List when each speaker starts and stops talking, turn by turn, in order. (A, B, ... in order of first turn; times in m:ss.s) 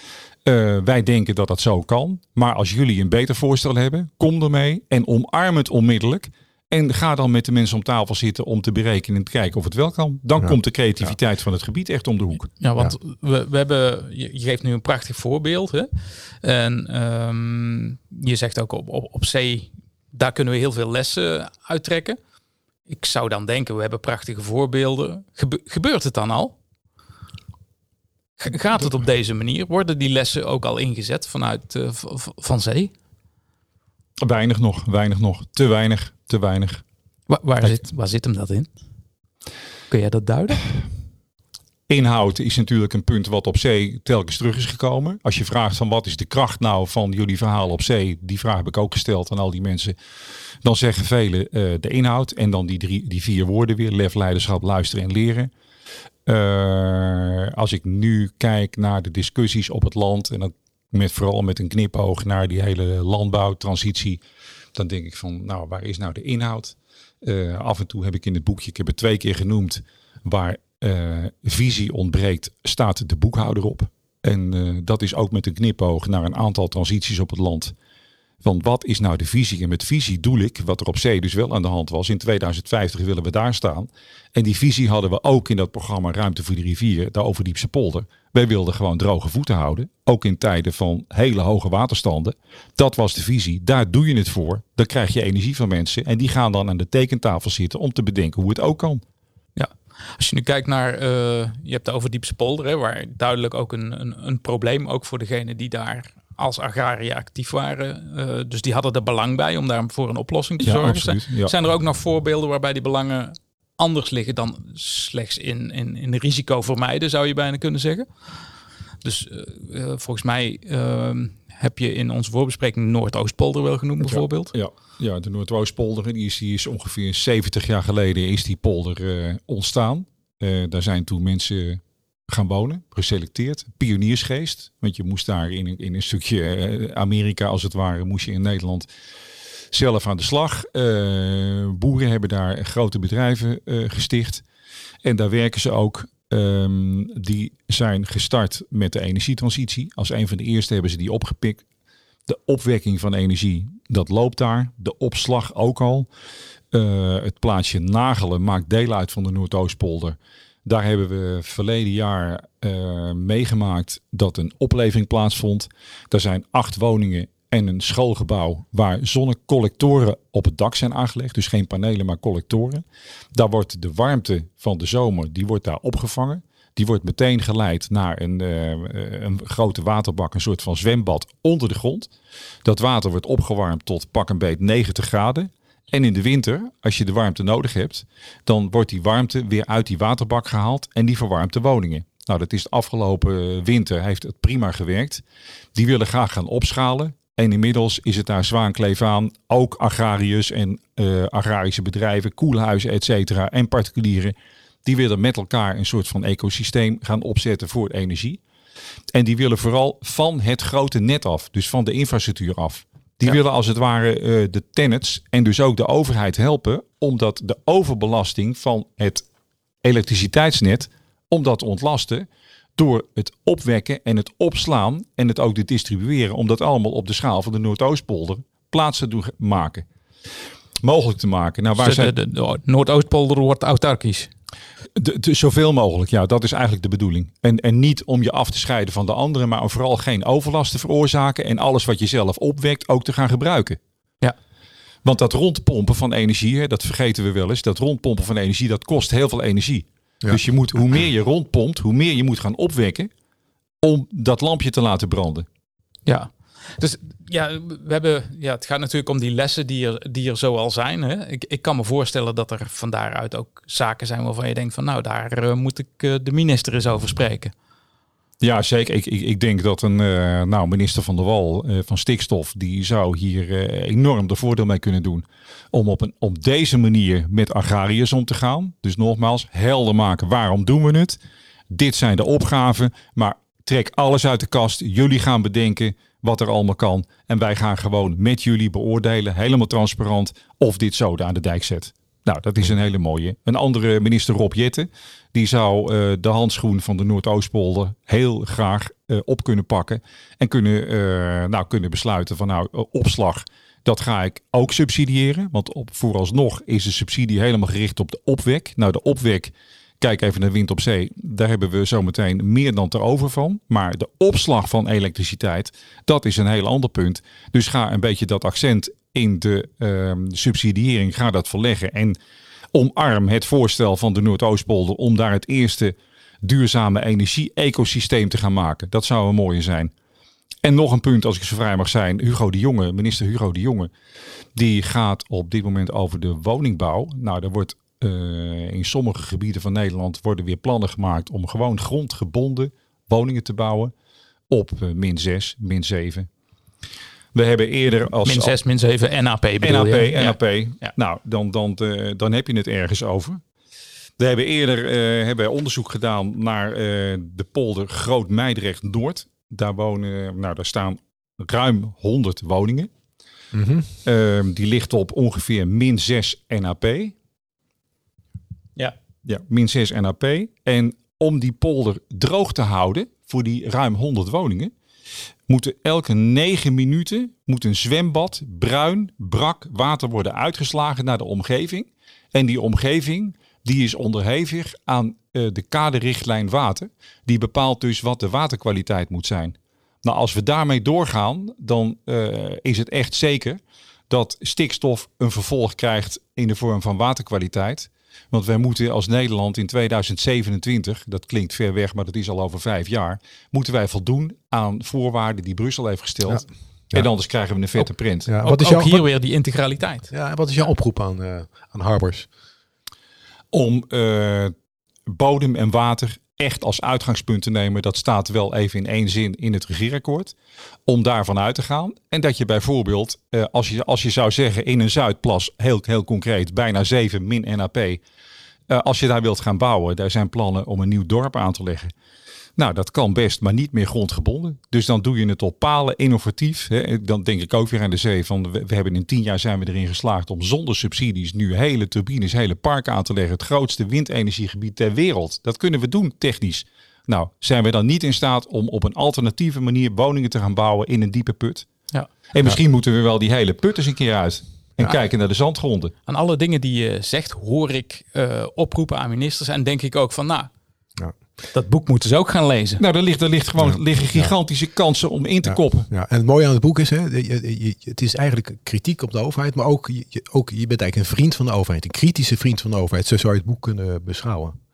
0:00.5-0:12.5 A
0:10.4-0:11.2 B
0:12.6-0:22.2 C
0:22.9-0:26.6 C
0:28.4-0:32.9 C
0:34.2-0:36.8 A
0:37.3-0:38.7 C
0:39.9-0:40.7 C
0:41.9-0:50.0 A
0:50.6-0:55.5 A
0:56.3-1:04.2 A
1:04.8-1:17.7 A
1:18.4-1:39.0 A
1:39.6-1:58.3 C
1:50.6-1:51.5 A
1:59.0-2:04.5 C
2:04.1-2:18.9 A
2:19.7-2:24.4 A
2:25.0-2:31.6 A
2:32.3-2:36.1 A
2:36.7-3:02.1 A
3:02.6-3:15.2 A
3:15.8-3:28.4 A
3:29.1-3:39.3 A
3:39.8-3:49.9 A
3:50.8-3:52.1 A
3:51.8-3:54.3 C
3:55.0-4:03.8 A
4:05.0-4:13.1 A
4:13.8-4:15.5 A
4:16.1-4:27.5 C
4:28.4-4:41.2 A
4:41.7-5:22.2 A
5:22.7-5:29.9 A
5:30.6-5:33.9 A
5:34.6-5:43.9 A
5:44.5-5:46.3 A
5:47.3-5:48.6 A
5:48.2-5:50.9 C
5:49.6-5:53.4 A
5:54.2-6:02.9 A
6:03.5-6:03.9 B
6:04.0-6:07.2 A
6:09.2-6:14.7 A
6:15.5-6:48.3 A
6:46.3-6:47.1 B
6:48.3-6:49.1 B
6:48.4-6:50.1 C
6:50.1-6:52.3 B
6:53.5-6:54.5 A
6:55.1-7:00.4 A
7:00.9-7:08.0 A
7:08.7-7:11.9 A
7:12.6-7:31.7 A
7:32.3-7:35.9 A
7:36.1-7:40.5 C
7:41.5-7:42.8 C
7:42.8-7:45.9 A
7:43.6-7:44.3 B
7:45.4-7:54.6 B